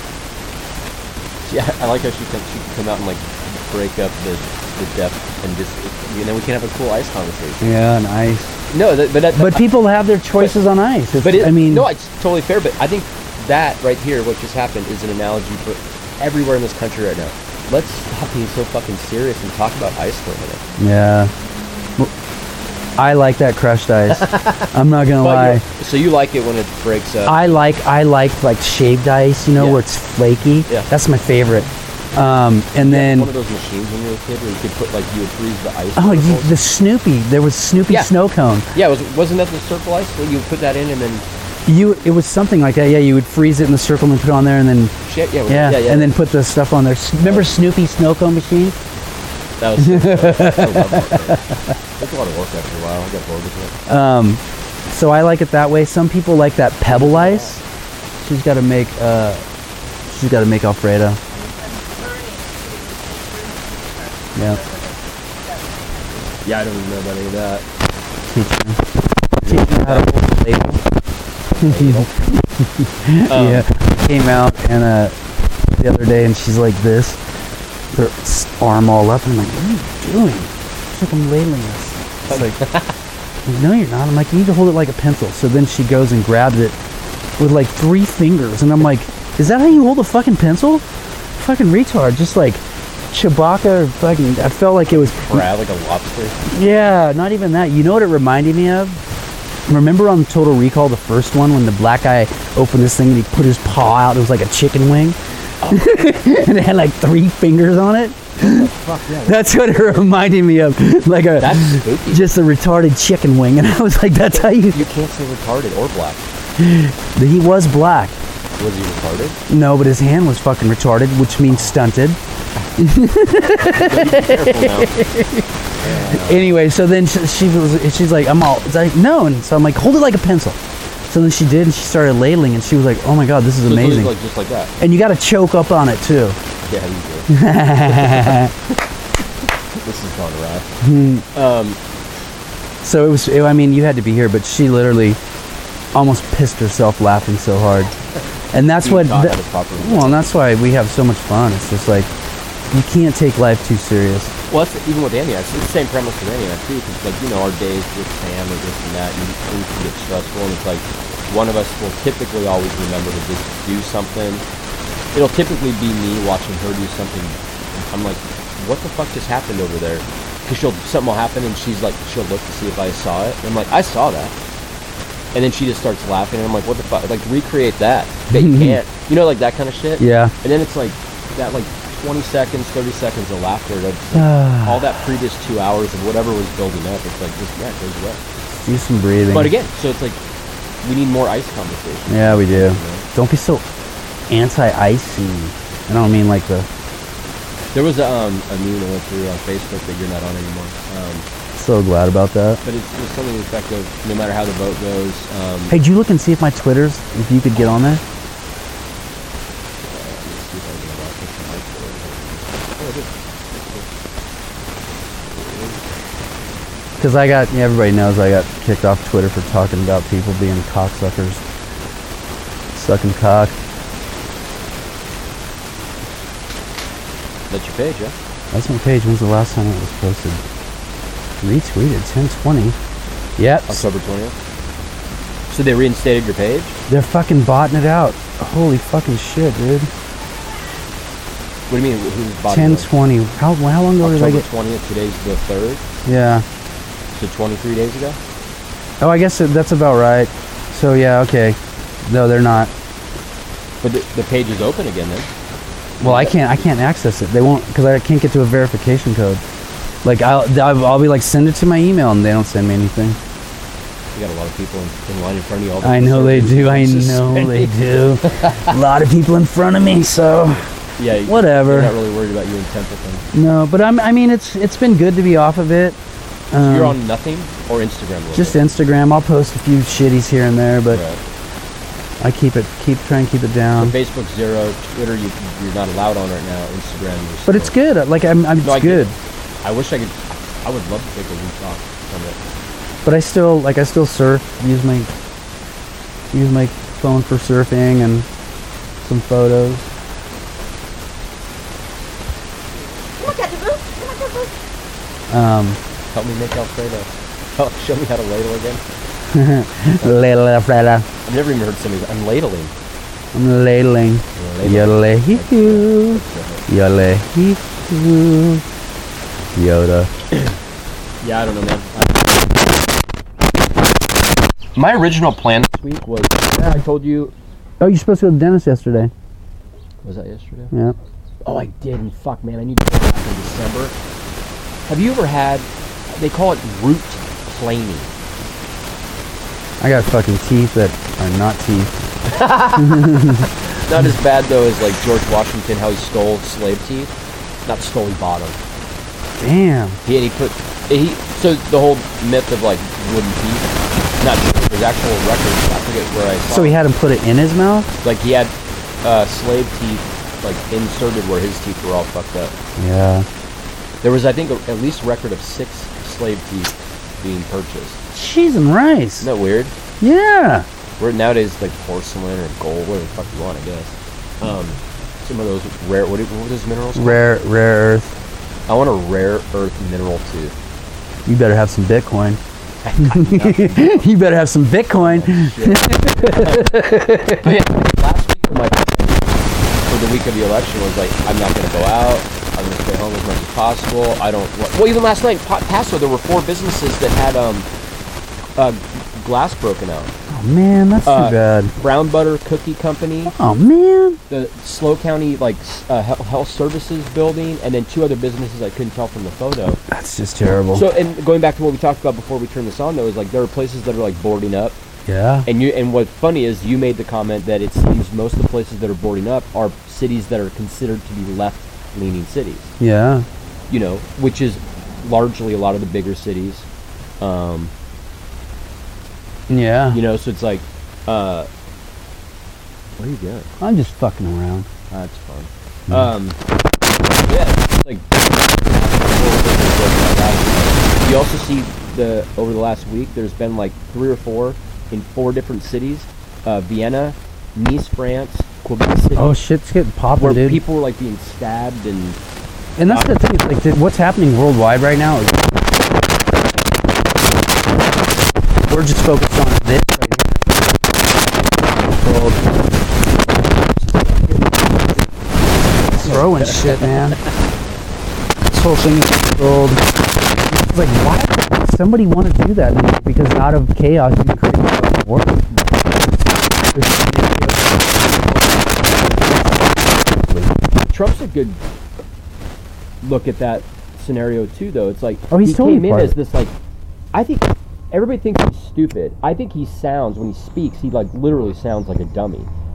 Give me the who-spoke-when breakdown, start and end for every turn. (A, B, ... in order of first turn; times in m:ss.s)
0:01.4-0:07.7 A
0:07.6-0:08.5 B
0:08.7-0:09.7 A
0:09.4-0:11.9 B
0:11.2-0:20.6 A
0:20.8-0:21.3 B
0:23.0-0:25.6 B
0:24.1-0:27.4 A
0:27.3-0:33.3 B
0:29.6-0:29.8 A
0:32.8-0:36.6 A
0:36.0-0:38.7 B
0:38.7-0:41.3 A
0:41.7-0:45.0 B
0:45.0-0:46.1 A
0:45.5-0:48.8 B
0:47.2-0:47.5 A
0:49.6-0:51.4 A
0:49.8-0:51.6 B
0:52.0-0:53.8 A
0:53.9-0:57.6 B
0:56.9-0:57.6 A
0:58.2-0:59.4 B
1:00.1-1:01.2 B
1:01.3-1:06.4 C
1:06.4-1:07.7 A
1:08.3-1:08.8 B
1:09.4-1:10.8 B
1:09.4-1:10.1 A
1:11.5-1:12.1 A
1:11.6-1:15.2 B
1:13.3-1:13.7 A
1:15.7-1:17.2 B
1:17.9-1:22.6 B
1:22.3-1:23.0 A
1:23.4-1:26.8 B
1:27.4-1:35.4 B
1:35.1-1:36.4 A
1:36.5-1:39.0 B
1:39.7-1:45.2 B
1:45.7-1:48.7 B
1:48.4-1:50.0 A
1:49.2-1:54.9 B
1:51.4-1:52.3 A
1:54.6-1:56.2 A
1:56.6-1:58.2 B
1:58.6-1:59.4 A
1:59.5-2:02.2 B
2:02.8-2:05.5 B
2:03.7-2:05.0 A
2:05.8-2:06.4 A
2:06.0-2:14.1 B
2:13.6-2:14.7 A
2:14.8-2:16.4 B
2:16.7-2:17.3 A
2:17.3-2:18.5 B
2:17.8-2:18.8 A
2:19.8-2:20.7 A
2:20.8-2:21.2 B
2:21.3-2:21.8 A
2:22.8-2:25.2 B
2:25.9-2:27.9 B
2:28.5-2:32.1 B
2:28.8-2:30.3 A
2:32.7-2:34.3 B
2:34.5-2:44.4 A
2:45.1-2:47.4 A
2:47.9-2:54.4 A
2:55.3-3:08.2 A
2:58.3-2:58.8 B
3:00.0-3:00.3 B
3:04.1-3:05.0 B
3:08.6-3:09.5 B
3:09.3-3:10.2 A
3:10.8-3:13.1 A
3:12.1-3:13.6 B
3:14.3-3:16.7 B
3:17.7-3:21.3 A
3:21.6-3:22.6 B
3:22.6-3:25.8 A
3:25.7-3:28.0 B
3:29.8-3:33.9 A
3:35.3-3:35.9 A
3:37.0-3:41.4 B
3:42.7-3:43.6 B
3:47.5-3:48.2 A
3:48.5-3:50.4 B
3:51.4-3:52.8 B
3:53.4-3:53.8 B
3:53.7-3:54.4 A
3:55.5-3:56.8 A
3:56.9-3:59.9 B
4:01.7-4:02.9 A
4:02.5-4:04.4 B
4:04.0-4:05.8 A
4:06.0-4:06.4 B
4:07.1-4:08.2 A
4:09.0-4:12.7 B
4:13.8-4:15.3 A
4:16.0-4:16.5 A
4:16.0-4:19.4 B
4:20.0-4:23.2 B
4:24.2-4:28.8 A
4:25.8-4:30.7 B
4:31.0-4:33.3 A
4:31.3-4:31.9 B
4:33.3-4:36.0 B
4:36.5-4:37.0 B
4:36.6-4:38.6 A
4:38.3-4:41.0 B
4:40.9-4:41.2 A
4:42.2-4:44.0 B
4:43.8-4:47.8 A
4:47.5-4:49.2 B
4:48.6-4:52.4 A
4:53.0-4:55.1 B
4:56.3-4:58.3 B
4:59.0-4:59.8 B
5:03.0-5:04.6 C
5:05.3-5:05.8 B
5:06.1-5:08.8 A
5:09.3-5:11.1 B
5:11.2-5:12.7 A
5:13.3-5:18.6 B
5:14.4-5:16.7 A
5:19.6-5:20.1 B
5:21.2-5:22.6 A
5:24.8-5:27.3 A
5:27.8-5:29.1 B
5:30.0-5:30.7 A
5:31.4-5:33.9 A
5:34.9-5:38.1 A
5:39.8-5:41.9 B
5:42.3-5:47.1 A
5:42.5-5:43.5 B
5:47.7-5:48.6 A
5:49.4-5:50.0 B
5:50.0-5:53.7 A
5:54.2-5:56.8 A
5:56.5-5:57.9 B
5:58.0-5:58.5 A
5:59.0-6:02.6 A
6:02.8-6:03.3 B
6:04.0-6:08.0 A
6:08.1-6:09.3 B
6:09.2-6:09.7 A
6:10.0-6:10.7 B
6:11.0-6:17.3 A
6:17.0-6:18.2 B
6:18.7-6:20.6 A
6:21.3-6:22.4 B
6:22.8-6:24.0 A
6:23.0-6:27.5 B
6:25.0-6:37.7 A
6:38.6-6:40.1 A
6:40.3-6:41.7 B
6:41.0-6:43.4 A
6:43.3-6:44.2 B
6:44.3-6:49.8 A
6:49.9-6:50.8 B
6:50.7-6:54.8 A
6:55.1-6:55.5 B
6:55.5-7:02.7 A
7:02.8-7:03.3 B
7:03.7-7:06.7 A
7:07.2-7:07.7 A
7:09.5-7:10.0 B
7:09.9-7:11.5 A
7:13.0-7:13.5 A
7:13.6-7:14.7 B
7:14.9-7:16.4 A
7:17.1-7:29.4 A
7:29.2-7:30.6 B
7:30.2-7:32.2 A
7:32.8-7:35.7 B
7:32.9-7:33.2 A
7:38.6-7:42.6 B
7:43.1-7:45.1 B
7:45.8-7:47.2 B
7:45.8-7:46.9 A
7:48.5-8:00.5 B
8:00.9-8:01.6 A
8:03.0-8:06.6 A
8:05.3-8:06.2 B
8:07.1-8:12.5 A